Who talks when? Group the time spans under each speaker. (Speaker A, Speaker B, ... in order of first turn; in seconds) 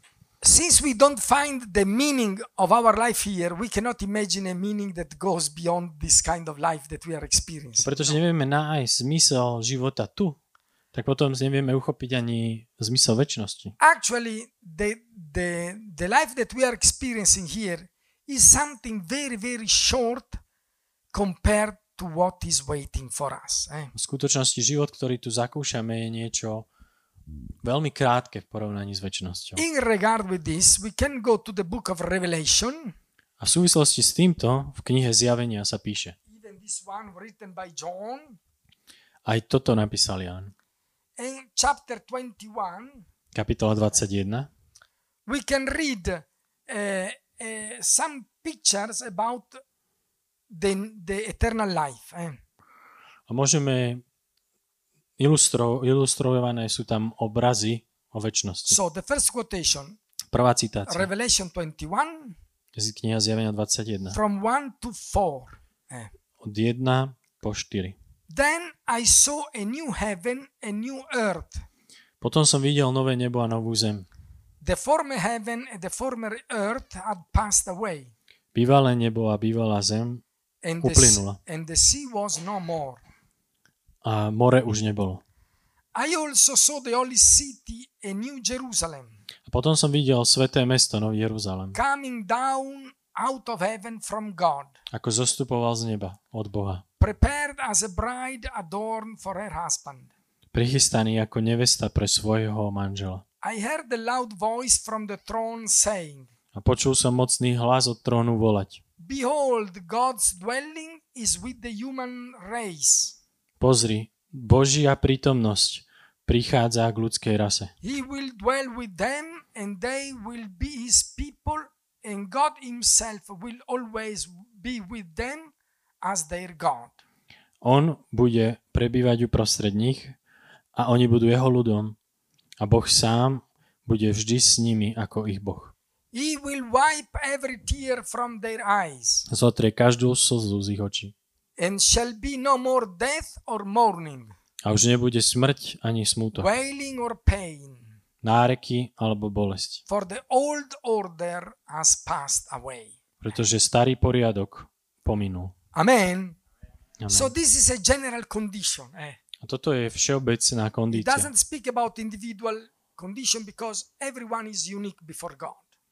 Speaker A: 0.4-8.2, 13.8-20.4, 21.1-23.9, 29.6-32.9, 36.3-38.4, 41.2-43.1, 45.2-49.6, 50.5-52.4, 58.7-60.0, 60.9-62.4, 64.1-66.1, 68.3-71.6, 74.6-78.1, 80.6-83.0, 85.9-89.2, 91.7-94.8, 97.0-100.1, 103.4-106.3, 109.0-113.2, 117.8-127.0, 136.1-139.3, 141.6-144.3, 146.3-147.9, 149.9-153.0, 155.7-156.4, 157.1-159.2, 160.9-165.6
Speaker B: 7.8-10.4, 10.9-13.7, 23.9-26.7, 27.6-29.6, 33.4-36.1, 39.2-40.5, 43.3-44.5, 53.3-54.0, 55.2-58.8, 60.3-61.1, 62.7-64.2, 66.4-68.0, 72.2-74.1, 78.5-80.2, 80.8-81.4, 84.0-85.2, 89.5-91.8, 94.9-96.8, 100.5-103.2, 106.5-108.8, 113.6-117.7, 127.6-130.2, 130.7-131.9, 132.6-135.7, 139.3-141.1, 144.6-146.5, 148.2-149.8, 153.2-155.5, 157.0-157.3, 159.4-161.3